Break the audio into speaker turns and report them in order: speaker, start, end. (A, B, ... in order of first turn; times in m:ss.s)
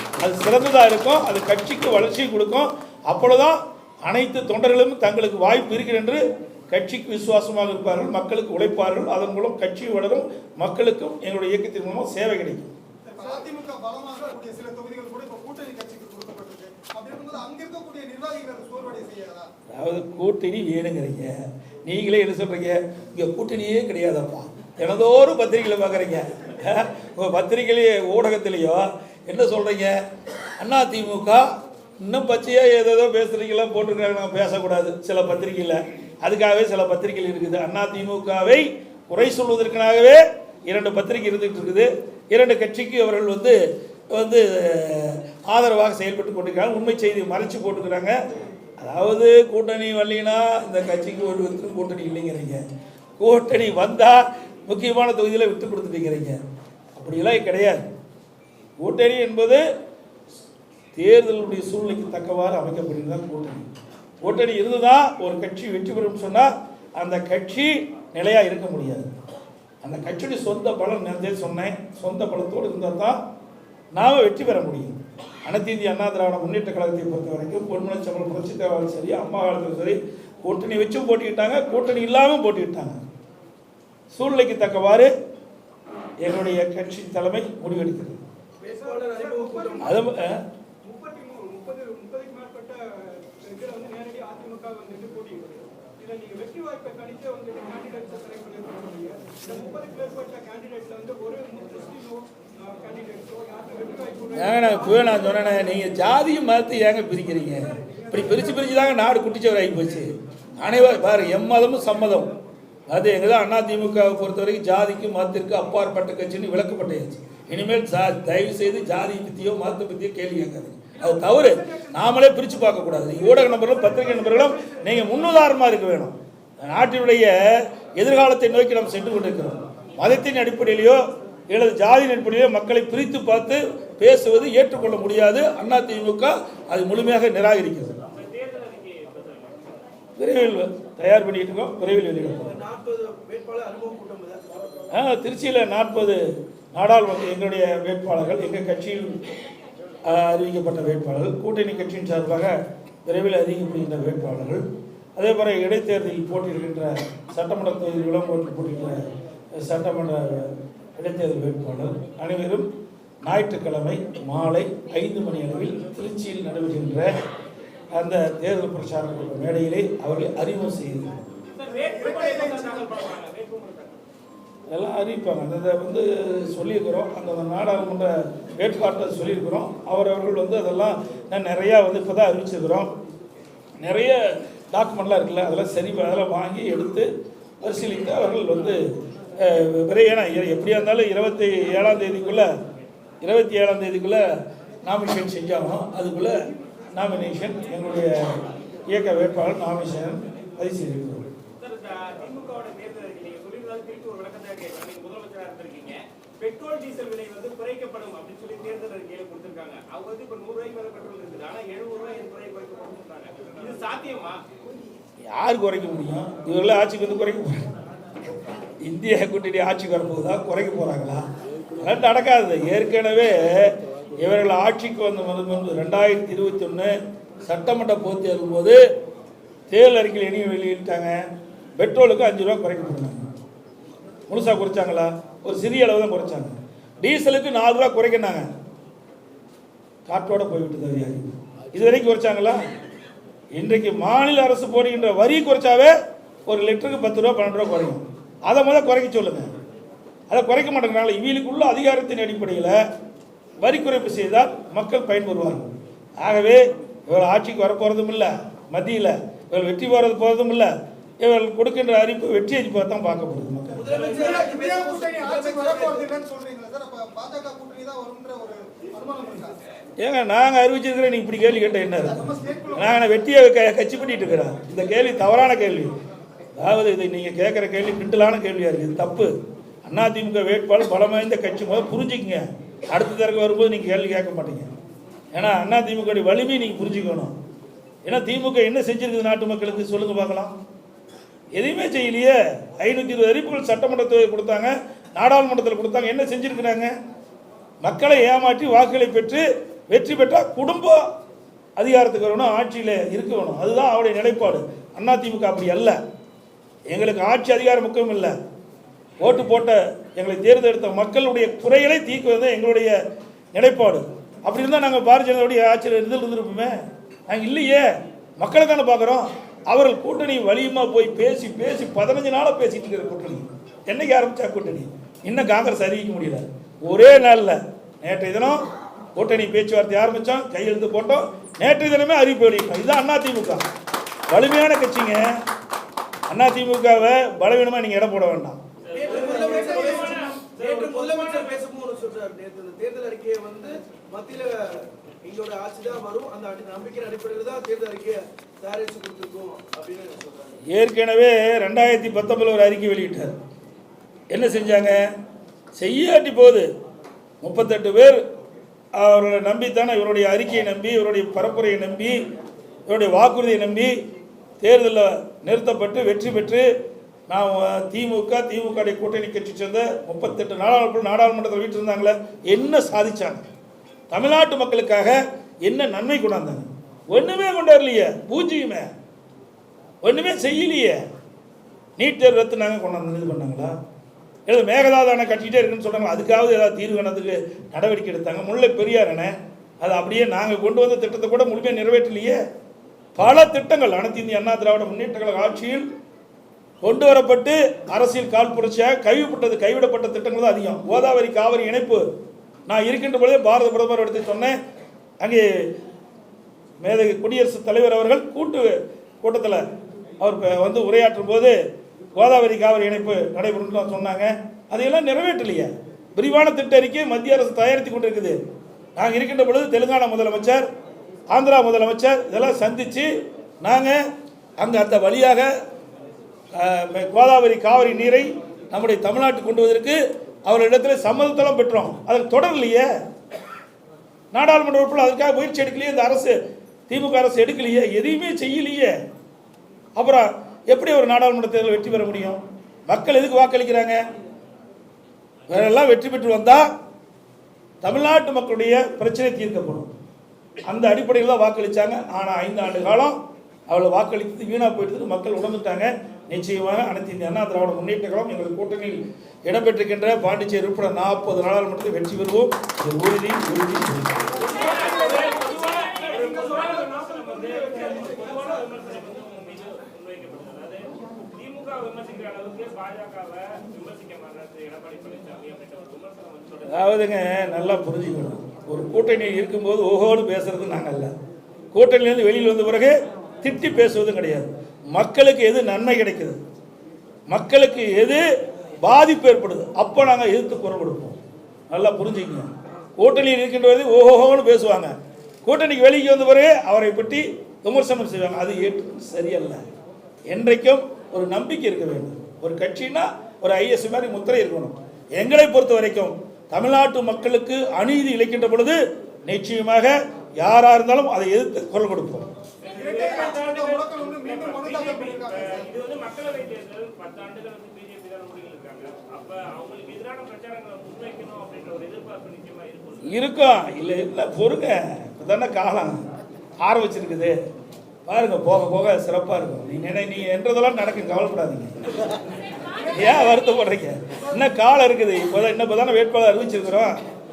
0:00.2-0:12.7 A
0:13.1-0:19.5 B
0:19.7-0:30.0 A
0:30.6-0:31.4 A
0:32.0-0:43.6 A
0:44.1-0:48.1 A
0:48.8-0:52.6 A
0:53.2-0:56.4 A
0:56.9-0:57.8 A
0:58.8-0:59.6 A
1:00.9-1:03.7 A
1:04.2-1:09.1 A
1:09.8-1:13.2 A
1:13.9-1:23.0 A
1:24.1-1:25.1 A
1:26.2-1:28.2 A
1:28.6-1:30.0 C
1:28.8-1:30.0 D
1:29.8-1:30.4 A
1:30.8-1:45.9 D
1:44.3-1:52.3 A
1:47.6-1:48.8 D
1:52.9-2:18.0 A
2:01.2-2:01.8 D
2:03.7-2:04.6 D
2:18.1-2:19.6 E
2:20.2-2:22.5 A
2:22.4-2:24.6 C
2:24.9-2:26.2 A
2:26.7-2:29.1 A
2:30.0-2:32.5 A
2:33.0-2:34.6 A
2:35.2-2:39.0 A
2:39.6-2:42.7 A
2:43.2-2:47.1 A
2:47.9-2:51.2 A
2:51.5-2:54.0 E
2:51.6-2:52.9 B
2:54.7-3:02.9 A
3:03.8-3:07.1 A
3:07.6-3:08.8 A
3:09.4-3:12.5 A
3:13.2-3:14.2 A
3:14.8-3:16.4 A
3:16.9-3:18.2 A
3:18.9-3:21.3 A
3:21.6-3:34.4 E
3:35.3-3:37.7 A
3:38.8-3:41.2 A
3:41.8-3:48.8 A
3:49.7-3:53.2 A
3:54.3-3:58.5 A
4:00.1-4:02.6 A
4:03.5-4:05.9 A
4:06.4-4:09.5 A
4:10.3-4:12.8 A
4:13.6-4:23.9 A
4:23.7-4:26.1 C
4:24.0-4:29.6 B
4:30.0-4:35.9 A
4:32.1-4:33.0 B
4:36.5-4:39.3 A
4:39.8-4:44.7 A
4:45.3-4:47.3 A
4:48.0-4:50.5 A
4:51.5-4:56.9 A
4:57.8-5:01.0 A
5:01.8-5:06.0 A
5:06.9-5:08.3 A
5:09.2-5:13.0 A
5:13.5-5:16.7 A
5:17.3-5:28.6 A
5:29.2-5:33.6 A
5:34.3-5:35.2 A
5:36.3-5:38.6 A
5:38.8-5:41.6 E
5:38.9-5:50.6 C
5:50.7-5:53.3 A
5:54.3-5:55.0 A
5:55.7-5:56.7 A
5:57.4-5:58.2 A
5:59.0-6:02.2 A
6:02.8-6:03.9 A
6:04.6-6:06.6 A
6:07.3-6:13.4 A
6:14.1-6:18.9 A
6:20.0-6:21.0 A
6:22.0-6:23.7 A
6:24.5-6:32.4 A
6:33.2-6:35.8 A
6:36.8-6:42.0 A
6:42.7-6:44.6 A
6:45.2-6:45.7 A
6:46.8-6:49.6 A
6:50.2-6:51.6 A
6:52.1-6:58.4 A
6:59.0-7:00.6 A
7:01.3-7:03.1 A
7:03.6-7:04.0 A
7:04.6-7:05.5 A
7:06.6-7:12.9 A
7:14.3-7:18.9 A
7:20.0-7:24.0 A
7:25.5-7:26.7 A
7:27.8-7:29.9 A
7:30.6-7:33.2 A
7:33.7-7:44.4 A
7:44.4-7:56.9 E
7:44.6-7:48.6 D
7:56.6-8:01.1 A
8:01.7-8:06.4 A
8:07.3-8:08.2 A
8:08.8-8:11.2 A
8:11.7-8:14.9 A
8:15.4-8:19.6 A
8:20.3-8:32.3 A
8:32.6-8:43.1 E
8:32.7-8:35.7 B
8:43.0-8:46.0 A
8:46.6-8:47.4 A
8:48.0-8:51.8 A
8:52.9-8:56.9 A